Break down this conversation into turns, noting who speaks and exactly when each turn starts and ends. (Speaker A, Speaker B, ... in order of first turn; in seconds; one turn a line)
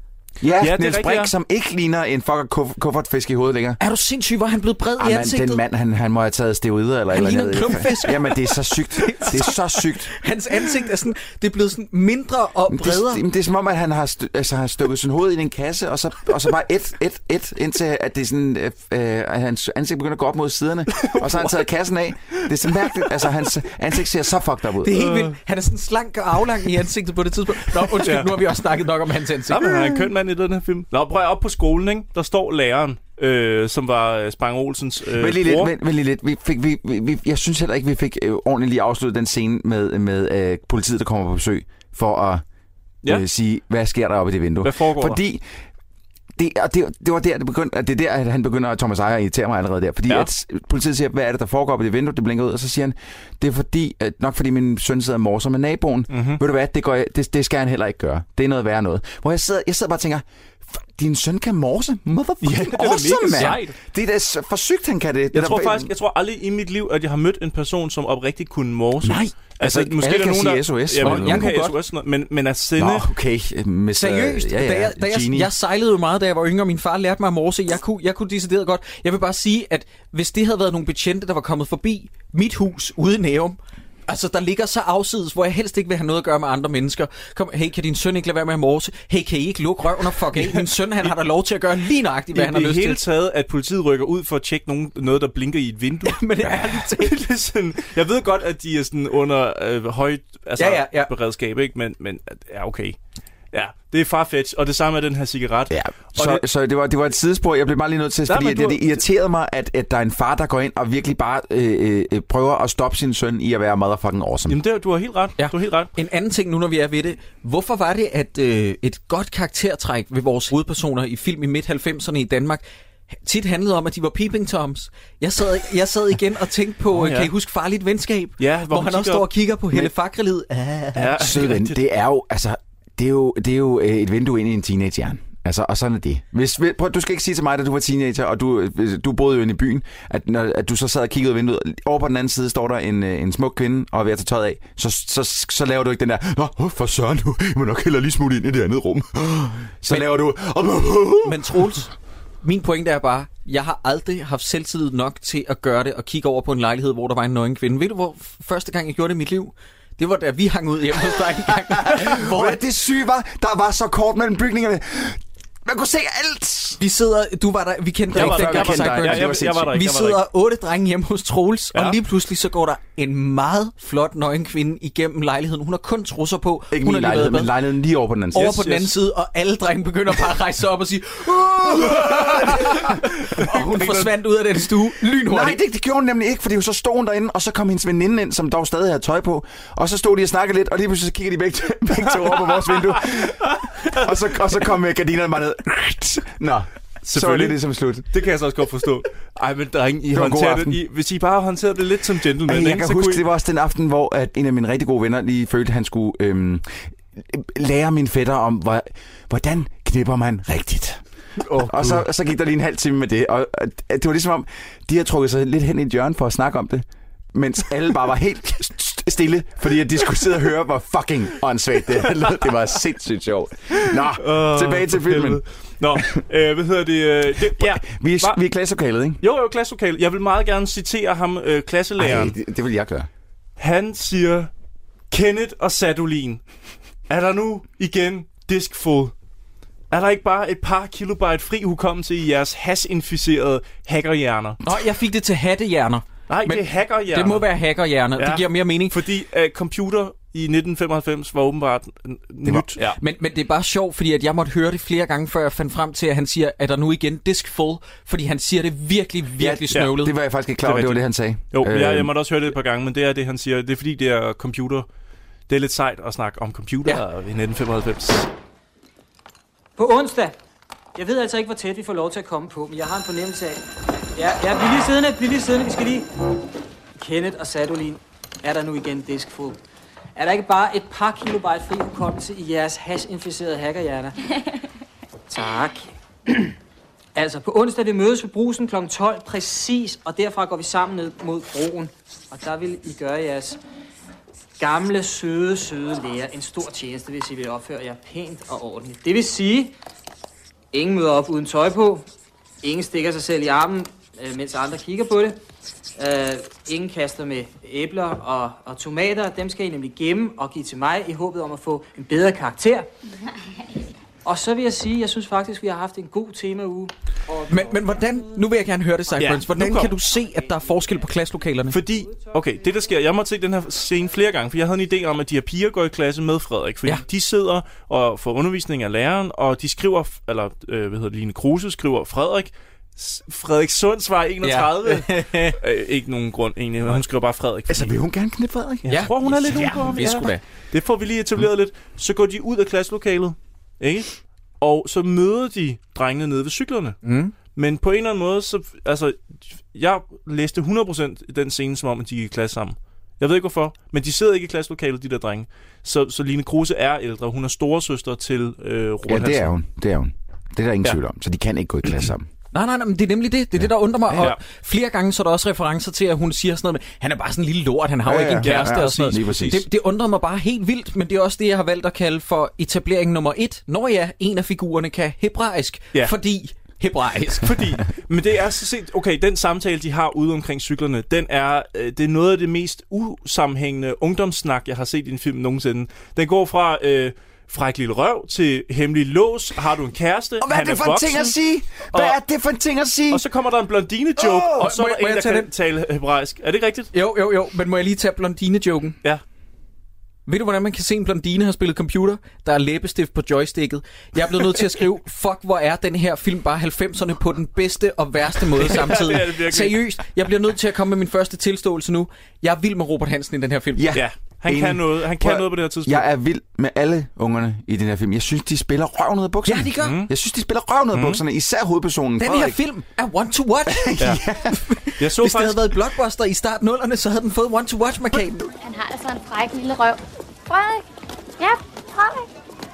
Speaker A: 0.4-3.8
Speaker B: 0.6-1.3
Speaker C: 3.8-5.6
Speaker A: 5.0-10.1
Speaker C: 7.1-13.2
Speaker A: 12.7-25.1
Speaker B: 20.9-21.6
Speaker C: 24.8-29.7
Speaker B: 25.0-25.3
Speaker B: 27.9-28.6
Speaker B: 29.5-35.7
Speaker A: 35.1-42.4
Speaker A: 43.0-45.4
Speaker B: 44.6-45.2
Speaker A: 46.4-65.9
Speaker B: 56.1-56.4
Speaker B: 62.4-63.8
Speaker B: 65.3-73.1
Speaker A: 69.0-71.5
Speaker C: 71.0-71.7
Speaker A: 72.8-75.5
Speaker C: 73.9-93.0
Speaker B: 90.4-90.7
Speaker B: 92.3-103.0
Speaker C: 96.0-97.2
Speaker C: 100.6-101.1
Speaker B: 103.5-106.4
Speaker A: 105.7-114.6
Speaker B: 108.3-109.0
Speaker B: 114.5-115.9
Speaker C: 115.4-122.6
Speaker C: 123.2-131.3
Speaker B: 126.9-127.3
Speaker B: 128.4-129.3
Speaker B: 130.9-131.8
Speaker A: 131.2-151.5
Speaker C: 151.2-151.9
Speaker C: 152.4-162.6
Speaker A: 161.8-166.8
Speaker C: 166.8-177.5
Speaker A: 168.1-169.7
Speaker B: 168.1-170.2
Speaker A: 176.7-178.6
Speaker C: 178.3-185.6
Speaker B: 178.6-178.9
Speaker A: 181.9-182.6
Speaker B: 183.4-184.1
Speaker A: 185.2-198.1
Speaker B: 192.1-194.3
Speaker B: 197.1-203.2
Speaker A: 200.1-200.8
Speaker A: 202.4-211.0
Speaker A: 211.6-225.4
Speaker B: 224.0-228.4
Speaker A: 227.4-229.2
Speaker B: 229.2-232.4
Speaker A: 232.0-233.1
Speaker B: 233.6-234.5
Speaker B: 235.1-236.4
Speaker B: 237.1-239.1
Speaker B: 239.9-244.6
Speaker C: 244.6-248.9
Speaker B: 246.3-247.5
Speaker B: 248.2-253.0
Speaker C: 253.0-260.1
Speaker A: 259.4-262.1
Speaker B: 260.6-264.9
Speaker B: 265.5-268.3
Speaker D: 269.8-270.4
Speaker D: 270.9-273.6
Speaker D: 274.1-276.1
Speaker D: 276.9-279.6
Speaker D: 280.1-284.1
Speaker D: 285.3-286.4
Speaker D: 287.1-293.6
Speaker D: 294.6-299.7
Speaker D: 300.7-302.1
Speaker D: 302.6-305.4
Speaker D: 306.0-312.9
Speaker D: 314.2-317.6
Speaker C: 317.5-321.8
Speaker B: 319.2-319.9
Speaker B: 321.7-337.9
Speaker C: 334.4-335.6
Speaker A: 337.7-340.1
Speaker B: 338.9-347.0
Speaker C: 338.9-340.4
Speaker C: 347.0-347.3
Speaker B: 347.5-359.5
Speaker A: 359.1-362.3
Speaker C: 362.5-377.6
Speaker A: 368.1-369.6
Speaker B: 368.4-369.6
Speaker B: 377.4-391.4
Speaker A: 390.4-393.2
Speaker B: 391.9-392.2
Speaker B: 393.1-396.9
Speaker C: 394.4-395.5
Speaker C: 396.9-398.9
Speaker C: 400.3-413.9
Speaker B: 408.6-409.8
Speaker A: 413.8-422.6
Speaker B: 413.9-416.1
Speaker C: 419.4-420.0
Speaker B: 419.8-420.1
Speaker B: 420.9-421.2
Speaker C: 422.2-424.0
Speaker A: 423.7-424.6
Speaker C: 424.5-428.5
Speaker B: 425.0-425.7
Speaker E: 428.6-430.9
Speaker E: 431.4-432.3